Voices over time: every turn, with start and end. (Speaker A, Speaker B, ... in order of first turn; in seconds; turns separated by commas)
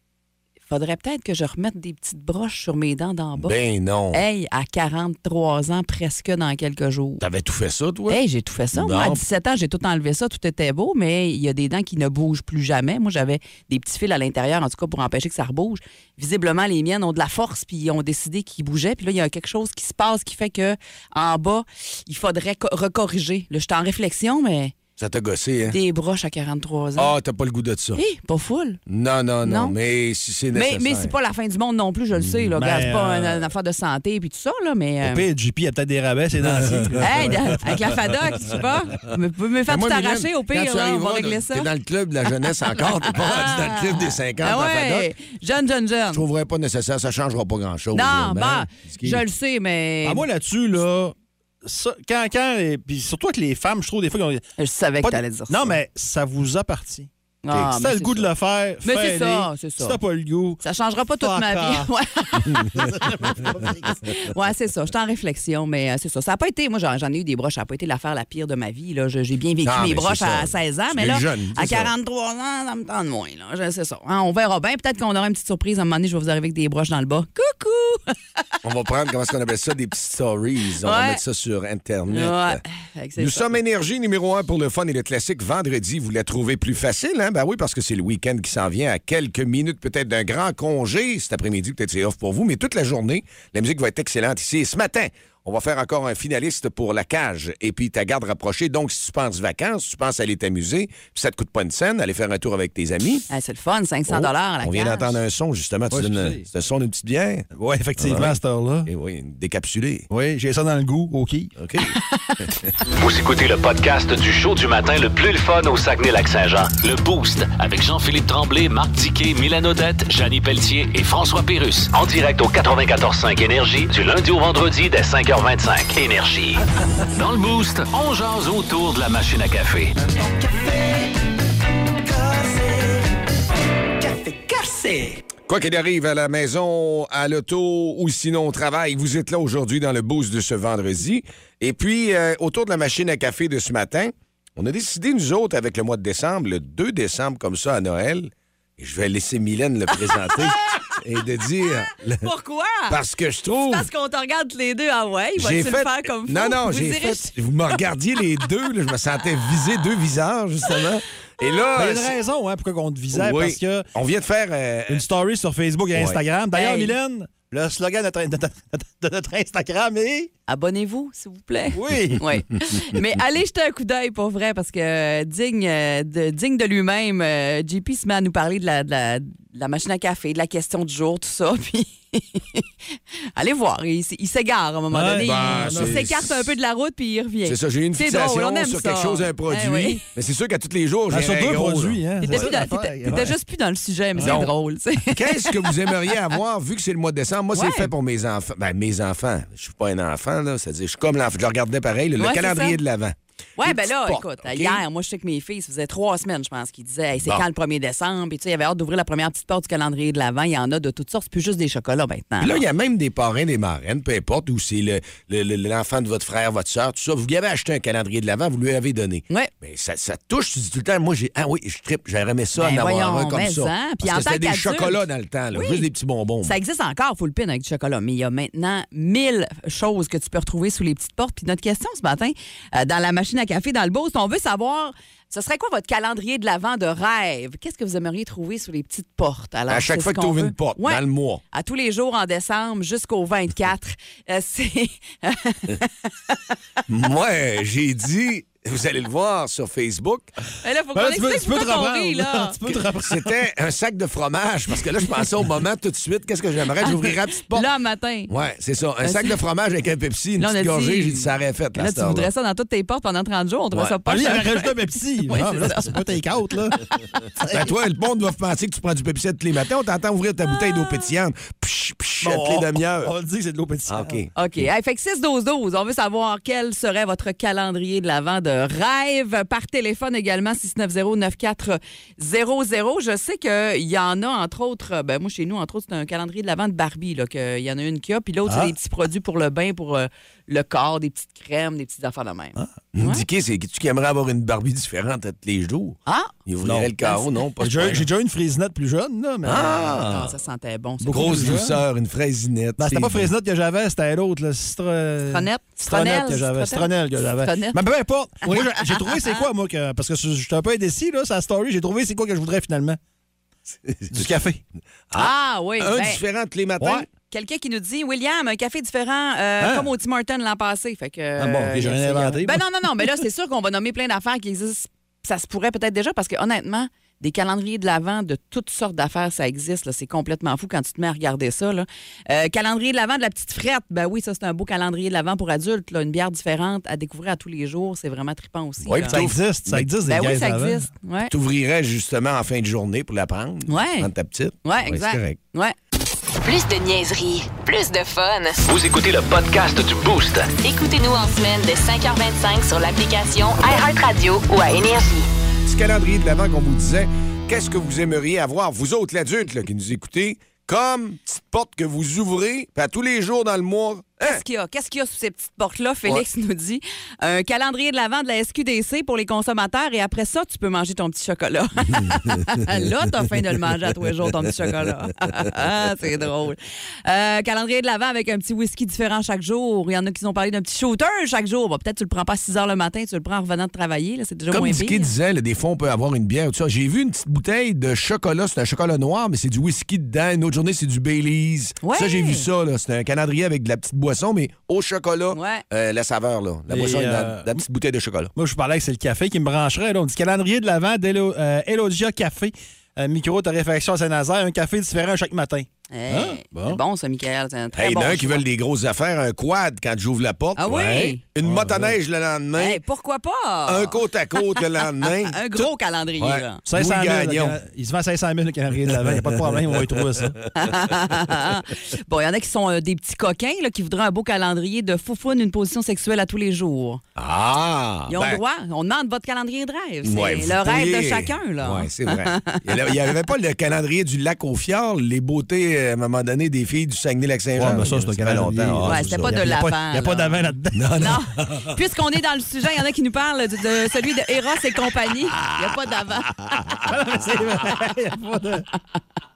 Speaker A: 0.7-3.6, Speaker B: 3.4-4.2, Speaker A: 4.1-7.2, Speaker B: 7.2-8.2, Speaker A: 8.1-24.8, Speaker B: 8.7-9.2, Speaker B: 25.0-25.8, Speaker A: 25.7-27.1, Speaker B: 27.0-28.0, Speaker A: 28.0-28.8, Speaker B: 28.9-31.1, Speaker A: 29.4-29.8, Speaker A: 30.5-35.3, Speaker B: 32.2-32.5, Speaker C: 32.6-33.5, Speaker C: 35.0-37.8, Speaker B: 36.4-37.4, Speaker A: 37.0-41.7, Speaker B: 39.7-45.1, Speaker A: 42.8-46.2, Speaker B: 46.1-49.2, Speaker A: 47.9-50.2, Speaker C: 50.0-54.4, Speaker A: 54.6-55.6, Speaker C: 55.0-60.6, Speaker A: 57.4-58.3, Speaker A: 58.8-60.0, Speaker A: 60.6-78.2, Speaker C: 61.2-61.9, Speaker C: 62.5-64.0, Speaker B: 69.7-71.9, Speaker B: 78.6-82.6, Speaker A: 80.8-81.2, Speaker A: 82.1-83.6, Speaker B: 83.2-103.3, Speaker A: 103.3-105.2, Speaker B: 104.1-107.5, Speaker C: 105.9-106.5, Speaker C: 107.5-108.9, Speaker B: 108.0-108.3, Speaker B: 108.9-110.1, Speaker C: 110.1-111.5, Speaker B: 111.6-112.7, Speaker D: 112.9-129.9, Speaker D: 134.2-134.9, Speaker B: 135.5-152.3, Speaker A: 152.2-153.0, Speaker B: 152.9-153.9, Speaker A: 153.7-157.3, Speaker B: 155.4-162.2, Speaker C: 161.8-163.9, Speaker B: 163.1-165.0, Speaker C: 164.9-170.3, Speaker B: 165.9-166.2, Speaker A: 166.5-166.9, Speaker A: 170.5-182.7, Speaker C: 171.7-172.2, Speaker A: 183.4-190.0, Speaker C: 184.9-186.1, Speaker B: 185.2-186.5, Speaker B: 187.5-192.5, Speaker C: 191.1-193.3, Speaker A: 192.2-195.7, Speaker B: 194.2-194.5, Speaker B: 195.1-204.8, Speaker A: 197.6-197.9, Speaker A: 202.2-202.8, Speaker A: 203.6-212.6, Speaker B: 212.4-226.6, Speaker A: 222.6-225.0, Speaker A: 225.5-225.9, Speaker A: 226.4-246.4, Speaker B: 239.7-241.4, Speaker B: 246.9-250.3, Speaker A: 250.6-252.6, Speaker C: 250.9-253.3, Speaker B: 252.9-257.7, Speaker A: 256.9-258.3, Speaker B: 258.3-262.3, Speaker A: 259.0-259.4, Speaker A: 260.4-266.0, Speaker C: 264.1-266.8, Speaker C: 267.4-267.7, Speaker B: 267.5-273.1, Speaker C: 272.2-274.2, Speaker B: 273.9-274.3, Speaker A: 274.4-293.2, Speaker C: 288.5-288.7, Speaker B: 292.9-298.1, Speaker A: 296.1-296.3, Speaker C: 296.6-296.9, Speaker A: 297.0-297.3, Speaker C: 297.6-300.2, Speaker B: 299.5-300.3, Speaker A: 300.0-301.6, Speaker C: 301.1-301.8, Speaker B: 301.1-303.3, Speaker C: 302.8-313.0, Speaker A: 305.3-307.8, Speaker A: 308.4-309.4, Speaker B: 313.9-314.3, Speaker C: 314.1-314.6, Speaker B: 315.1-317.1, Speaker A: 315.1-316.2, Speaker C: 316.8-317.1, Speaker A: 317.3-339.2, Speaker C: 319.6-319.9, Speaker C: 321.4-322.6, Speaker B: 338.9-339.9, Speaker C: 339.1-340.9, Speaker A: 340.1-341.3, Speaker B: 341.3-345.4, Speaker A: 343.7-344.1, Speaker A: 344.6-345.8, Speaker E: 346.4-348.6, Speaker D: 348.6-350.5, Speaker E: 350.6-355.3, Speaker B: 355.6-364.4, Speaker A: 364.2-385.1, Speaker B: 384.5-398.3, Speaker A: 391.8-392.5, Speaker A: 395.3-395.6, Speaker C: 396.7-397.5, Speaker C: 398.4-406.8, Speaker A: 405.9-408.4, Speaker B: 407.7-412.8, Speaker A: 410.6-411.2, Speaker C: 411.4-412.0, Speaker A: 412.6-414.0, Speaker B: 413.7-415.7, Speaker A: 415.0-416.6, Speaker B: 416.2-417.6, Speaker C: 416.6-420.4, Speaker A: 420.6-427.0, Speaker B: 427.2-428.4, Speaker A: 428.1-432.6, Speaker B: 430.0-439.4, Speaker C: 437.6-441.1, Speaker A: 438.9-446.4, Speaker B: 440.7-441.8, Speaker C: 446.8-448.7